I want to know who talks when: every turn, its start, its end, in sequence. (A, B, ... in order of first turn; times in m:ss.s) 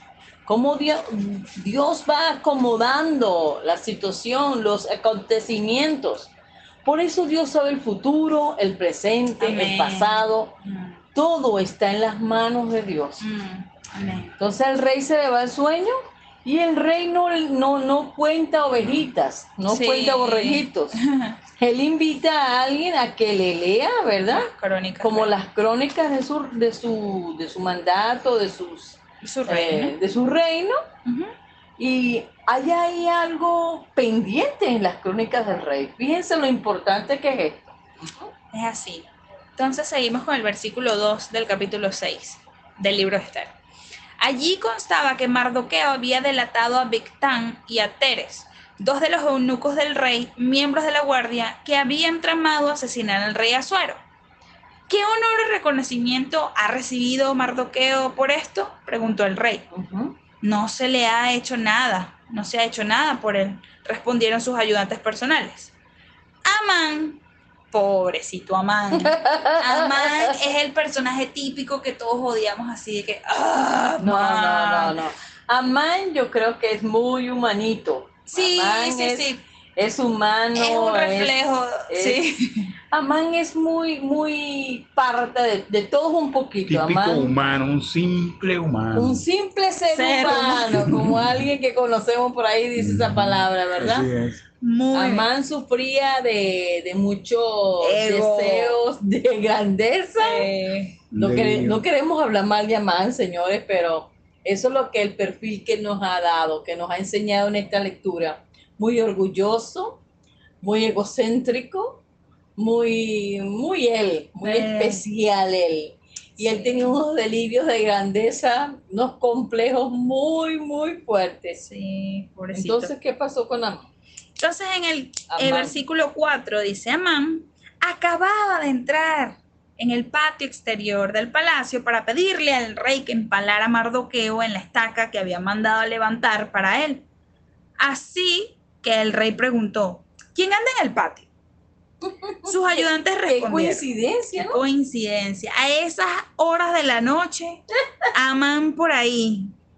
0:00.5-0:06.3 A
0:06.8-0:10.5 A
0:09.4-0:11.0 B
0:11.2-0:13.2 A
0:13.2-0:14.4 B
0:14.4-0:21.0 A
0:19.7-0:21.4 B
0:21.6-0:24.5 A
0:24.3-0:25.3 B
0:25.0-0:30.8 A
0:29.2-0:30.0 B
0:31.0-0:31.3 B
0:31.8-0:38.3 A
0:38.5-0:43.5 B
0:44.2-0:54.0 B
0:54.9-0:59.6 B
0:59.7-1:00.2 A
1:00.4-1:05.7 B
1:06.4-1:07.2 B
1:07.7-1:15.0 B
1:09.0-1:10.3 A
1:14.0-1:21.3 A
1:18.3-1:19.4 B
1:20.6-1:22.7 B
1:21.9-1:22.2 A
1:22.9-1:27.3 A
1:26.7-1:29.2 C
1:29.0-1:34.1 A
1:29.9-1:30.8 B
1:30.7-1:31.4 C
1:32.8-1:34.4 C
1:34.6-1:35.3 B
1:34.9-1:40.5 A
1:37.8-1:38.8 B
1:40.2-1:41.0 B
1:41.1-1:41.8 C
1:41.2-1:50.0 A
1:50.6-1:52.0 A
1:52.6-2:01.6 A
1:54.4-1:55.0 B
1:56.4-1:57.0 B
2:01.6-2:02.9 B
2:02.5-2:03.9 A
2:04.4-2:17.0 B
2:05.3-2:05.8 A
2:17.8-2:21.3 B
2:22.0-2:24.6 A
2:22.4-2:23.8 B
2:24.4-2:27.6 B
2:28.1-2:29.5 B